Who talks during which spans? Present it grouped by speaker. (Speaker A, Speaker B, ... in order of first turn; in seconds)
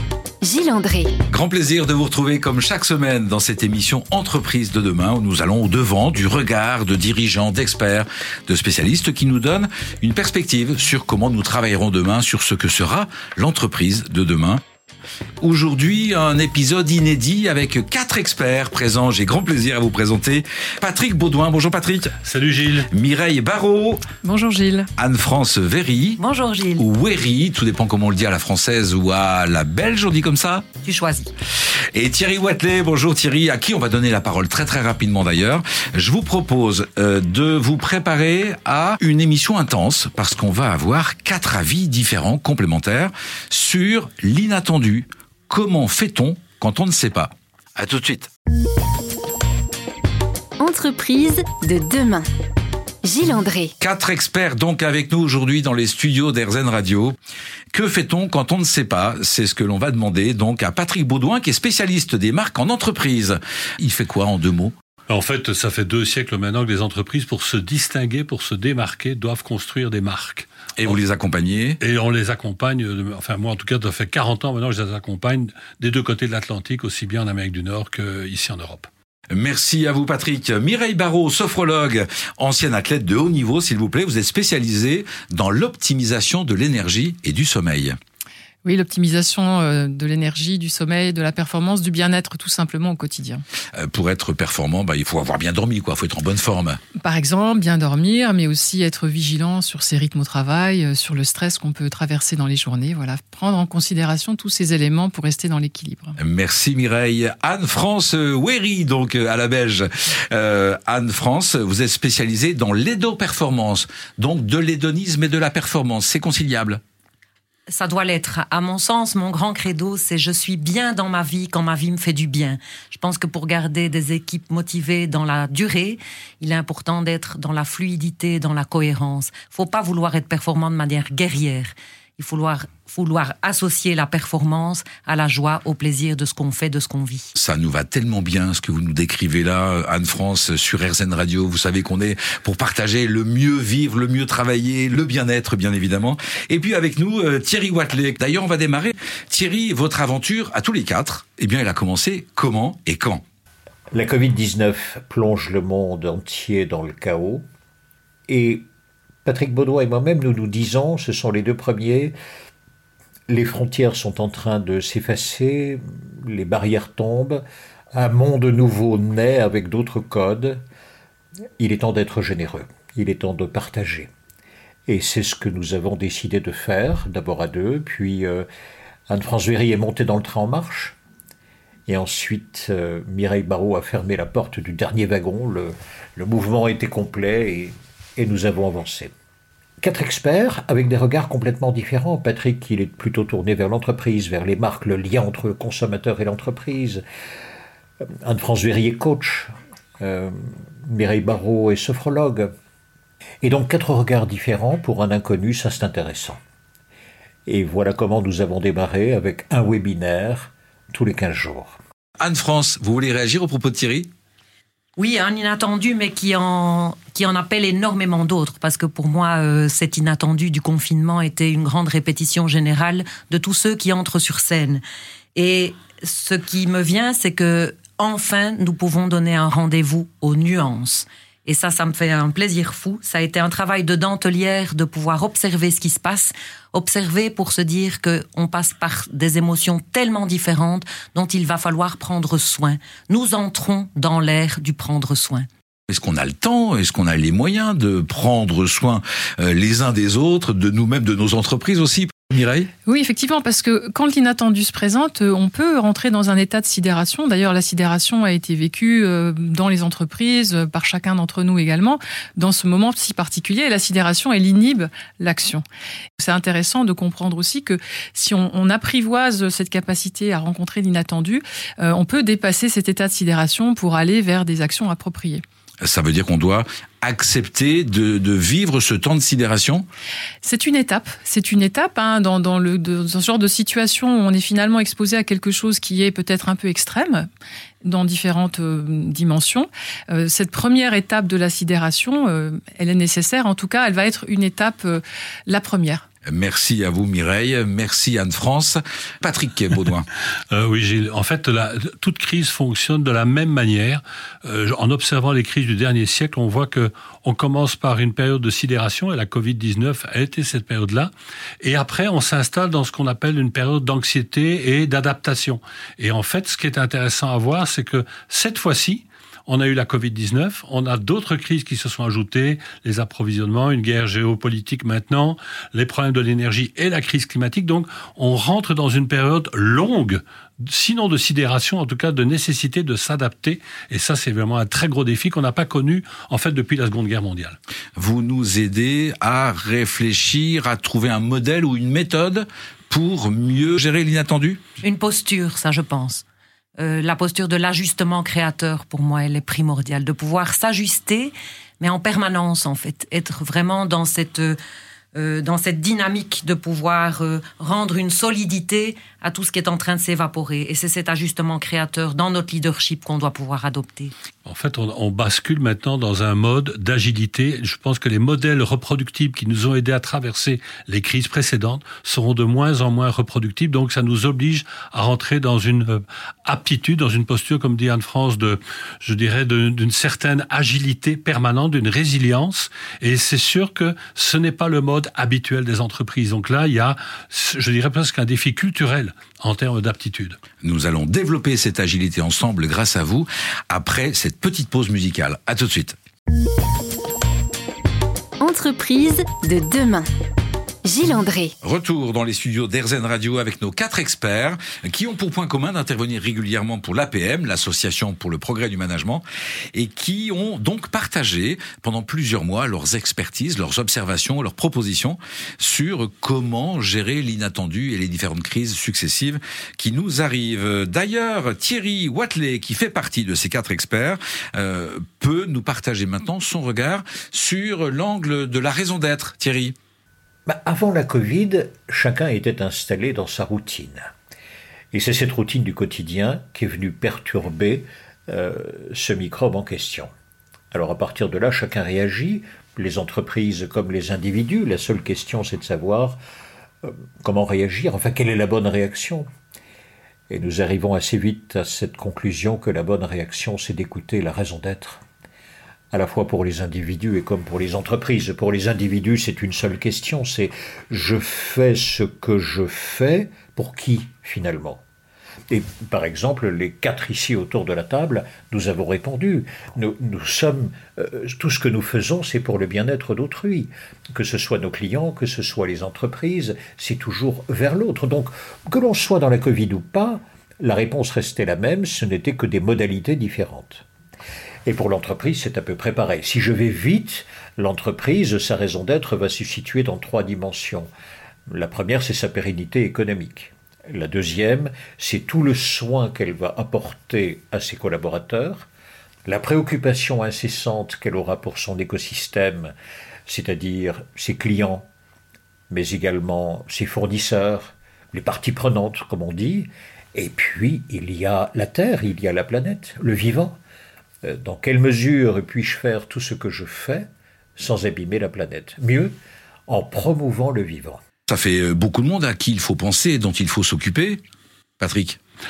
Speaker A: 0.4-1.1, 50.6-52.2, 53.1-53.7, 398.4-400.0, 400.9-401.5
Speaker B: 1.3-14.6, 15.4-22.2, 22.9-24.0, 25.0-26.2, 26.8-30.7, 31.9-48.3, 53.8-57.1, 57.7-64.7, 70.8-71.8, 79.3-88.0, 93.7-96.8, 106.2-116.8, 137.3-153.2, 212.2-214.1, 245.9-252.7, 275.8-279.9, 296.2-300.1, 337.9-344.6, 390.6-396.0, 401.6-429.8, 521.3-524.2, 524.8-525.2
Speaker C: 22.2-22.9, 65.1-70.5, 71.8-78.9, 300.5-337.6, 364.4-390.4
Speaker D: 24.2-24.9, 88.6-93.4, 97.0-106.2, 252.8-265.6, 266.2-275.4, 280.4-287.3, 287.8-296.0
Speaker E: 26.2-26.8, 30.8-31.3, 117.7-137.3, 215.0-224.8, 225.3-245.5, 344.8-346.2, 346.8-354.6, 355.1-364.1
Speaker F: 153.9-157.4, 158.3-158.6, 159.2-162.1, 163.3-167.4, 167.9-170.6, 171.6-174.1, 174.9-178.4, 179.1-180.9, 181.9-189.1, 189.8-197.0, 198.2-202.5, 203.4-206.4, 207.5-211.8, 430.4-434.1, 434.9-440.1, 440.7-446.2, 446.8-449.2, 450.3-455.0, 455.9-464.8, 465.5-483.8, 484.6-490.9, 491.5-498.7, 499.3-502.7, 503.3-504.8, 505.7-513.5, 514.2-519.1, 519.7-521.0